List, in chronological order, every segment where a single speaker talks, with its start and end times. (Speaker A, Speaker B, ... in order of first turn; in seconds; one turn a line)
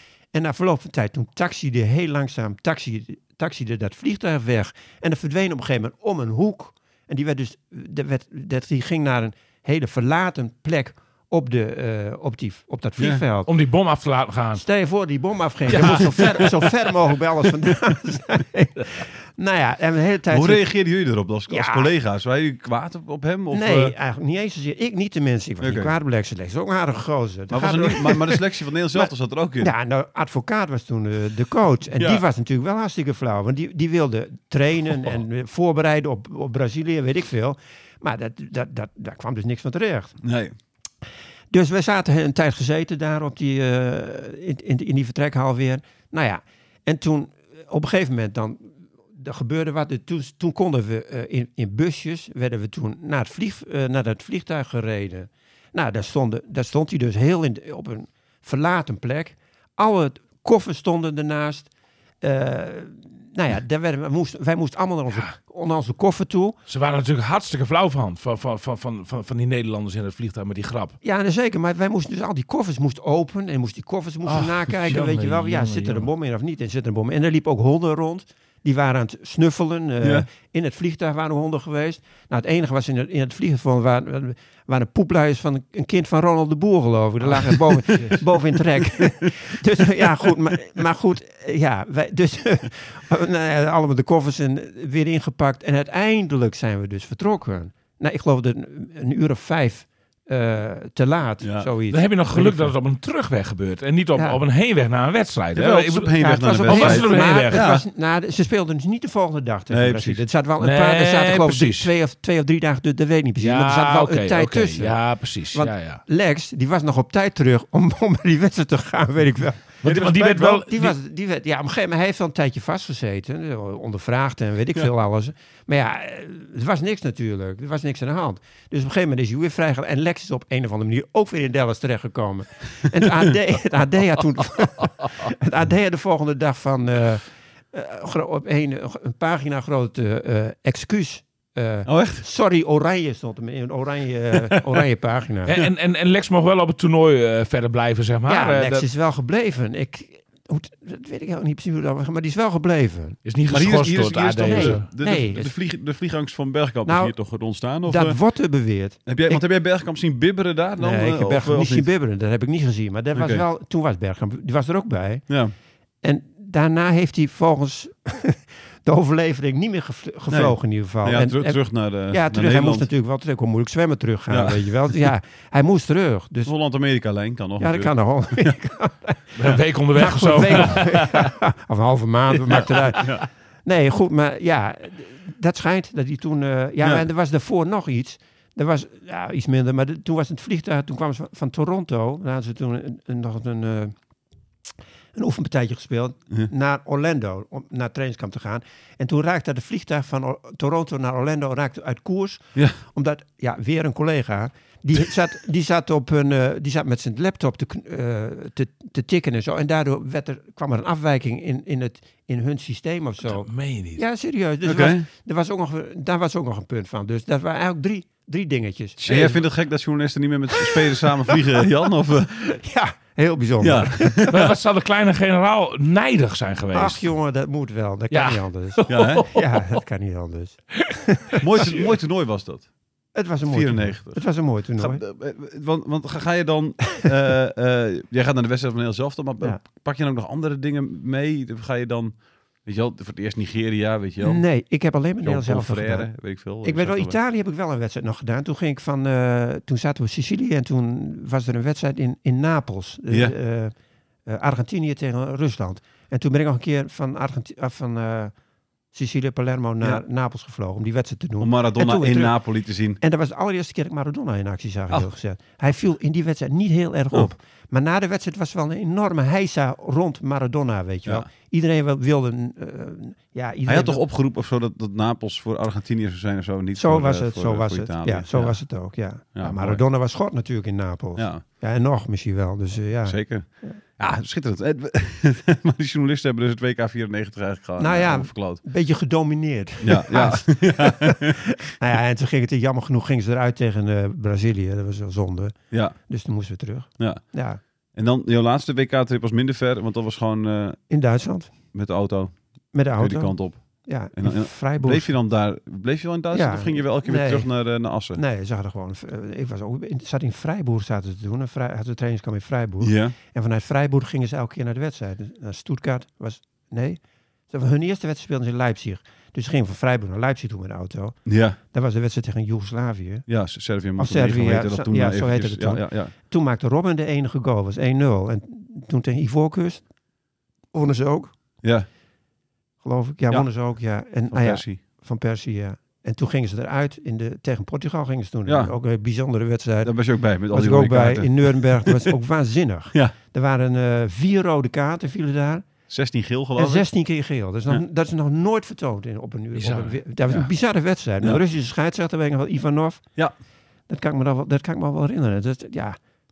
Speaker A: 0.3-13.5
Speaker B: 13.5-14.6
Speaker A: 14.5-20.7
Speaker B: 15.7-16.5
Speaker C: 15.7-16.5
Speaker C: 20.3-23.9
Speaker A: 21.5-21.9
Speaker A: 23.5-40.2
Speaker C: 25.6-25.9
Speaker C: 27.5-29.7
Speaker C: 32.0-32.2
Speaker C: 40.2-40.5
Speaker A: 41.5-61.7
Speaker A: 62.2-66.5
Speaker B: 66.7-71.0
Speaker A: 71.0-102.7
Speaker B: 74.2-76.1
Speaker C: 80.0-80.3
Speaker C: 87.9-89.3
Speaker C: 90.0-90.3
Speaker C: 101.4-101.7
Speaker B: 101.9-107.6
Speaker C: 105.5-107.8
Speaker A: 106.2-115.0
Speaker C: 109.7-110.2
Speaker B: 110.6-111.9
Speaker B: 113.4-116.0
Speaker A: 115.5-145.6
Speaker B: 119.8-120.9
Speaker C: 141.8-142.2
Speaker B: 145.5-148.8
Speaker A: 148.3-153.2
Speaker B: 153.2-154.8
Speaker C: 153.5-158.2
Speaker A: 154.4-155.5
Speaker A: 156.8-157.1
Speaker A: 157.8-159.4
Speaker C: 159.1-161.9
Speaker A: 160.8-165.2
Speaker C: 163.1-163.4
Speaker C: 165.3-165.5
Speaker A: 166.0-176.5
Speaker C: 170.3-172.9
Speaker C: 174.3-175.1
Speaker C: 176.4-178.5
Speaker A: 177.6-193.9
Speaker B: 179.4-181.3
Speaker C: 183.0-183.2
Speaker A: 195.1-219.4
Speaker B: 213.2-214.0
Speaker C: 214.6-215.1
Speaker C: 219.0-222.4
Speaker A: 220.7-221.0
Speaker A: 222.4-224.3
Speaker C: 223.6-224.6
Speaker B: 224.3-227.1
Speaker A: 226.7-231.8
Speaker B: 228.1-229.8
Speaker C: 228.9-229.2
Speaker C: 231.4-232.7
Speaker A: 233.1-235.0
Speaker C: 233.5-244.4
Speaker A: 244.2-246.1
Speaker C: 245.2-247.2
Speaker A: 246.6-253.7
Speaker A: 254.3-258.3
Speaker A: 258.9-262.4
Speaker C: 261.4-263.0
Speaker A: 263.0-274.0
Speaker C: 273.7-278.7
Speaker A: 276.8-283.8
Speaker C: 279.3-279.8
Speaker C: 281.2-281.4
Speaker C: 283.0-288.6
Speaker A: 287.8-297.6
Speaker C: 289.8-291.4
Speaker C: 297.9-300.8
Speaker A: 300.9-301.5
Speaker C: 301.7-302.4
Speaker A: 302.7-305.2
Speaker C: 303.0-308.2
Speaker A: 306.3-307.5
Speaker A: 308.1-323.2
Speaker C: 312.8-313.1
Speaker C: 321.2-321.6
Speaker C: 323.3-326.1
Speaker A: 324.0-329.8
Speaker A: 330.7-331.3
Speaker A: 332.8-345.6
Speaker C: 334.3-334.8
Speaker C: 338.5-338.7
Speaker C: 339.8-342.1
Speaker C: 345.9-346.9
Speaker A: 346.6-353.0
Speaker B: 349.6-350.0
Speaker A: 353.9-356.0